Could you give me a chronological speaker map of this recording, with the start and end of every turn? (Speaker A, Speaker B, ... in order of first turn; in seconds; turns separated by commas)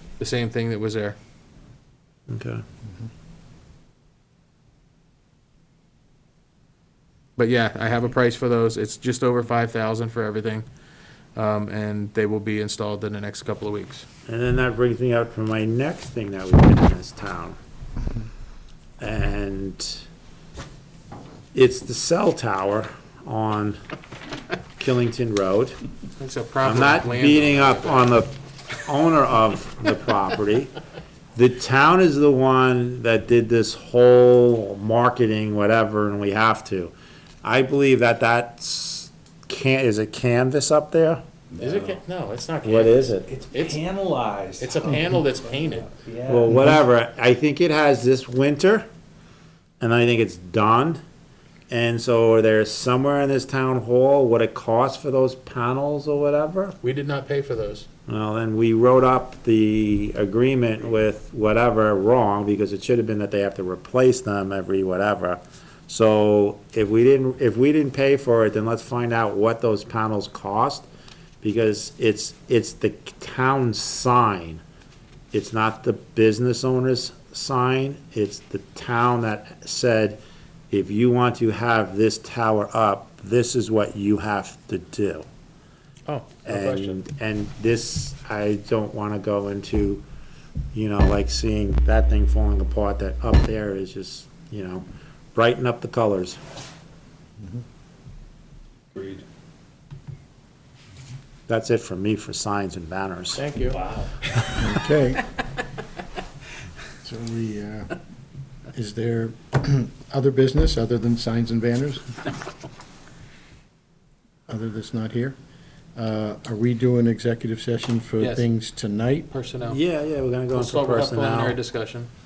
Speaker A: 0.2-1.2, Speaker B: 2.3-2.6, Speaker A: 7.4-10.7, Speaker A: 11.4-14.1, Speaker B: 14.3-17.6, Speaker B: 19.0-20.1, Speaker B: 21.5-23.8, Speaker B: 24.8-25.8, Speaker A: 26.2-28.1, Speaker B: 26.6-30.7, Speaker B: 31.4-41.2, Speaker C: 41.6-42.0, Speaker A: 41.6-43.8, Speaker B: 42.6-43.3, Speaker C: 43.3-46.7, Speaker A: 44.6-45.9, Speaker B: 46.3-48.9, Speaker B: 49.8-51.0, Speaker B: 51.7-56.8, Speaker A: 56.8-57.9, Speaker B: 58.1-70.9, Speaker B: 71.4-74.6, Speaker B: 75.3-80.2, Speaker B: 80.7-85.3, Speaker A: 86.1-87.0, Speaker B: 86.5-90.0, Speaker B: 90.7-96.4, Speaker C: 99.0-99.2, Speaker B: 101.5-103.4, Speaker A: 103.3-103.8, Speaker C: 103.7-104.2, Speaker D: 104.6-105.3, Speaker D: 107.0-107.9, Speaker D: 108.7-112.0, Speaker D: 114.5-115.4, Speaker D: 116.0-119.3, Speaker A: 118.2-118.5, Speaker A: 119.3-119.8, Speaker B: 119.7-121.6, Speaker A: 120.5-122.1